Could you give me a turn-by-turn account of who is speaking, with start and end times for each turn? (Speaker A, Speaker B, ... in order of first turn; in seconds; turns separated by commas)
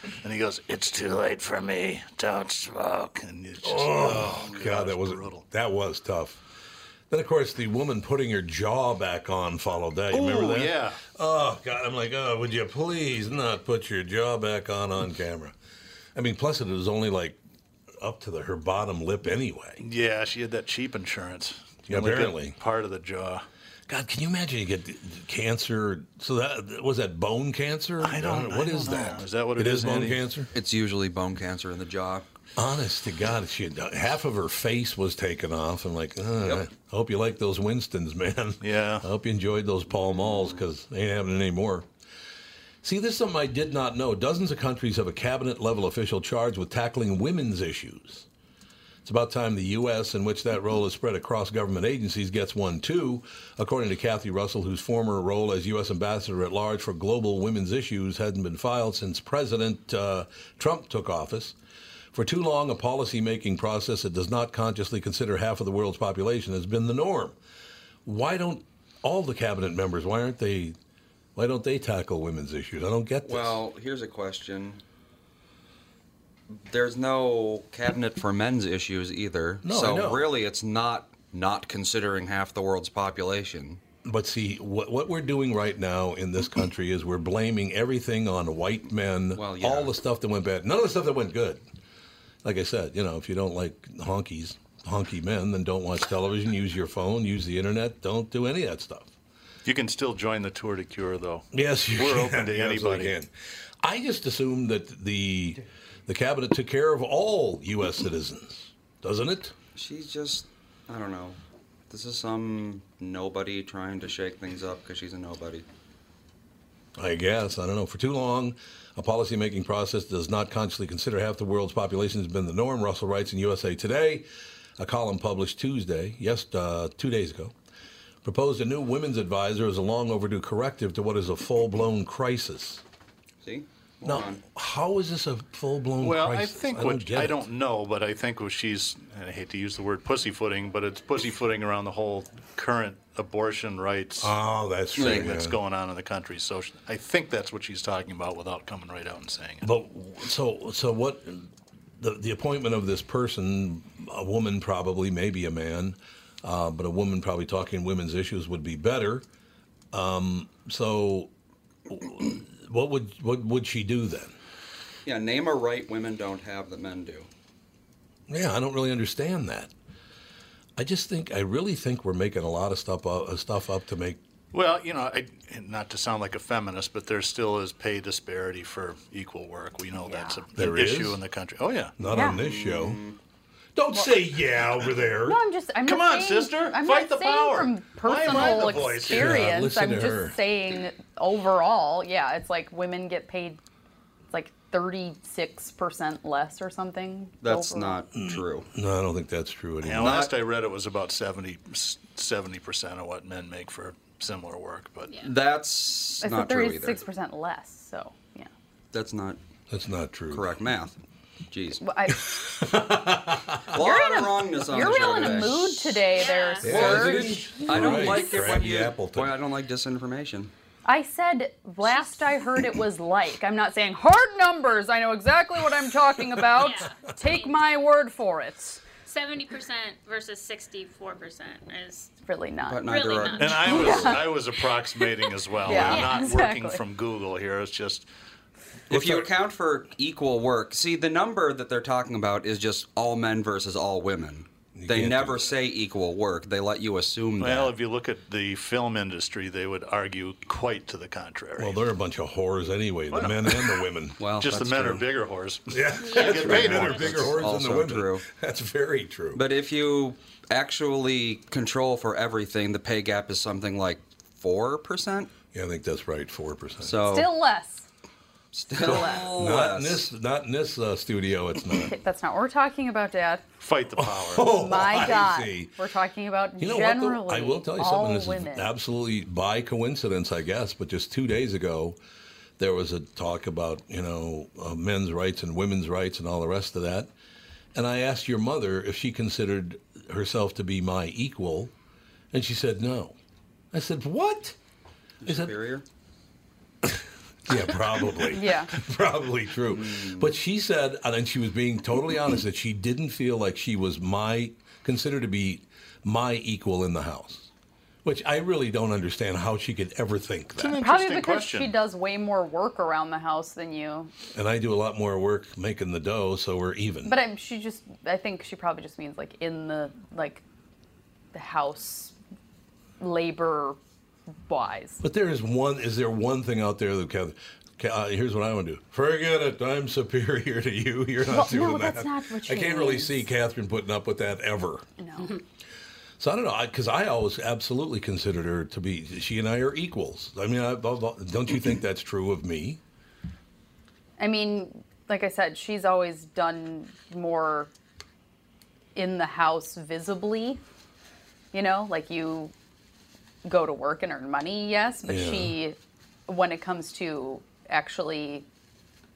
Speaker A: 0.2-5.4, Speaker B: 3.6-6.4, Speaker B: 7.1-15.5, Speaker A: 10.1-11.0, Speaker B: 16.1-17.4, Speaker B: 18.0-19.8, Speaker A: 19.8-23.4, Speaker B: 21.9-22.6, Speaker B: 23.9-30.5, Speaker A: 28.0-30.3, Speaker C: 30.5-32.2, Speaker B: 32.6-41.9, Speaker A: 38.6-39.1, Speaker B: 42.8-48.3, Speaker B: 49.0-61.6, Speaker B: 62.1-67.4, Speaker B: 68.0-70.8, Speaker B: 71.4-73.6, Speaker C: 73.2-74.8, Speaker C: 76.5-83.8, Speaker B: 79.6-80.3, Speaker B: 84.0-91.6, Speaker C: 89.4-89.9, Speaker B: 92.4-99.1, Speaker A: 99.7-103.1, Speaker B: 101.5-103.3, Speaker B: 103.8-109.5, Speaker C: 109.8-115.7, Speaker B: 117.0-124.3, Speaker B: 124.8-127.5, Speaker B: 128.2-132.8, Speaker C: 133.4-134.4, Speaker B: 134.0-137.4, Speaker A: 136.0-144.3, Speaker B: 144.2-145.6, Speaker A: 144.9-149.7, Speaker C: 145.0-145.3, Speaker B: 149.6-159.2, Speaker B: 159.9-161.3, Speaker B: 161.9-164.3, Speaker C: 165.1-167.3, Speaker B: 168.3-169.7, Speaker B: 170.8-174.2, Speaker A: 174.5-182.0, Speaker D: 180.0-180.4, Speaker B: 180.6-181.2, Speaker B: 182.0-183.0, Speaker D: 182.1-182.4, Speaker C: 182.2-183.2, Speaker B: 183.8-185.4, Speaker D: 185.3-193.6, Speaker A: 185.9-189.4, Speaker B: 188.5-190.4, Speaker D: 194.3-198.0, Speaker C: 197.4-198.7, Speaker B: 198.2-200.3, Speaker A: 199.8-205.2, Speaker C: 200.0-200.4, Speaker C: 205.2-207.0, Speaker D: 206.2-208.5, Speaker C: 208.9-209.4, Speaker B: 209.7-210.6, Speaker C: 210.3-211.0, Speaker C: 211.5-211.8, Speaker D: 211.8-212.2, Speaker B: 212.2-213.7, Speaker C: 213.7-216.0, Speaker D: 213.7-218.4, Speaker E: 216.1-216.7, Speaker B: 216.6-219.4, Speaker C: 216.7-220.5, Speaker D: 220.8-228.8, Speaker E: 226.6-227.6, Speaker E: 229.1-232.1, Speaker D: 232.3-234.3, Speaker C: 232.7-234.3, Speaker E: 232.8-234.0, Speaker A: 233.4-238.1, Speaker D: 235.6-236.8, Speaker E: 235.8-236.2, Speaker C: 238.9-247.8, Speaker B: 238.9-239.2, Speaker A: 238.9-239.3, Speaker B: 244.8-245.6, Speaker A: 247.4-251.8, Speaker B: 251.6-254.2, Speaker A: 253.1-253.8, Speaker C: 254.2-255.0, Speaker A: 254.4-257.3, Speaker B: 255.7-259.4, Speaker E: 256.0-256.8, Speaker C: 256.3-258.2, Speaker C: 259.3-265.3, Speaker B: 265.5-267.1, Speaker C: 266.8-267.3, Speaker D: 267.1-267.9, Speaker C: 268.5-270.1, Speaker D: 268.7-269.3, Speaker B: 268.8-271.9, Speaker D: 271.9-273.4, Speaker A: 273.6-274.6, Speaker B: 274.0-275.7, Speaker D: 274.5-278.7, Speaker B: 276.6-282.0, Speaker B: 282.6-287.1, Speaker B: 287.7-291.7, Speaker B: 292.3-293.1, Speaker B: 293.7-294.6, Speaker C: 295.2-295.9, Speaker B: 295.2-295.6, Speaker B: 296.8-307.5, Speaker D: 298.3-298.7, Speaker C: 299.7-300.3, Speaker B: 308.0-310.8, Speaker A: 310.6-311.7, Speaker D: 310.8-314.1, Speaker B: 314.3-317.2, Speaker D: 317.1-320.4, Speaker D: 321.3-322.1, Speaker D: 323.0-323.8, Speaker D: 324.5-325.0, Speaker B: 325.0-334.9, Speaker D: 331.3-333.3, Speaker D: 335.0-335.4, Speaker B: 336.2-342.8, Speaker D: 344.2-347.7, Speaker D: 349.0-350.6, Speaker D: 351.5-352.5, Speaker D: 353.4-358.5, Speaker B: 355.1-355.5